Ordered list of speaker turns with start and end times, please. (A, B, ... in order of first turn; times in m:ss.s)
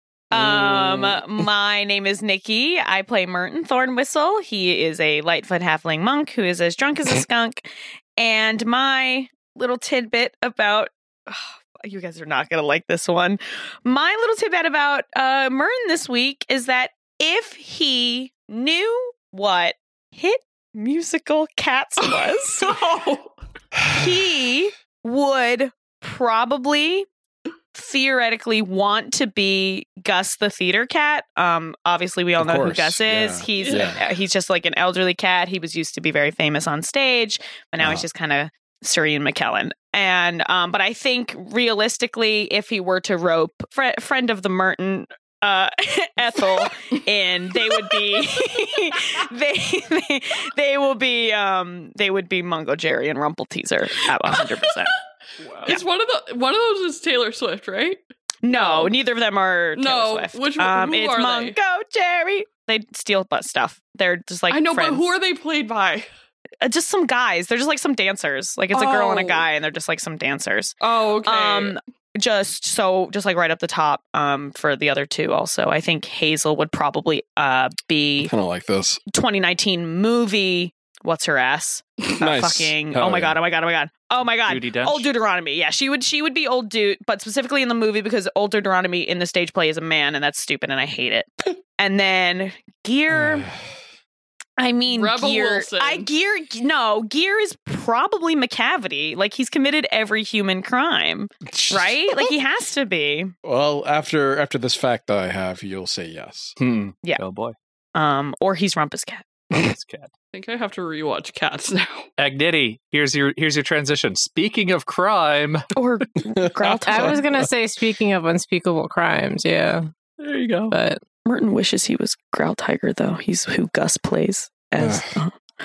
0:00.3-0:22.7 A
0:00.3-0:01.2 B
0:22.0-0:23.4 C
0:23.9-0:27.1 A
0:27.8-0:55.0 A
0:32.4-0:34.0 B
0:33.6-0:33.9 C
0:37.8-0:38.1 B
0:55.4-0:58.0 C
0:58.4-1:05.1 A
0:58.5-0:59.0 C
0:59.8-1:01.6 C
1:04.5-1:06.1 C
1:06.6-1:18.3 A
1:08.7-1:09.5 C
1:10.8-1:11.8 C
1:18.2-1:19.0 B
1:19.1-1:33.5 A
1:22.2-1:23.4 B
1:24.4-1:25.1 D
1:33.1-1:33.6 B
1:34.6-1:43.3 A
1:34.9-1:36.1 C
1:41.5-1:42.3 B
1:43.4-1:46.6 B
1:46.6-1:47.6 D
1:47.9-1:49.3 A
1:49.5-1:50.1 D
1:50.3-1:52.1 C
1:52.2-1:55.6 D
1:55.7-1:57.2 A
1:56.4-1:57.2 B
1:56.8-1:59.9 E
2:00.2-2:00.8 D
2:00.7-2:01.0 E
2:01.2-2:05.3 A
2:04.8-2:05.1 B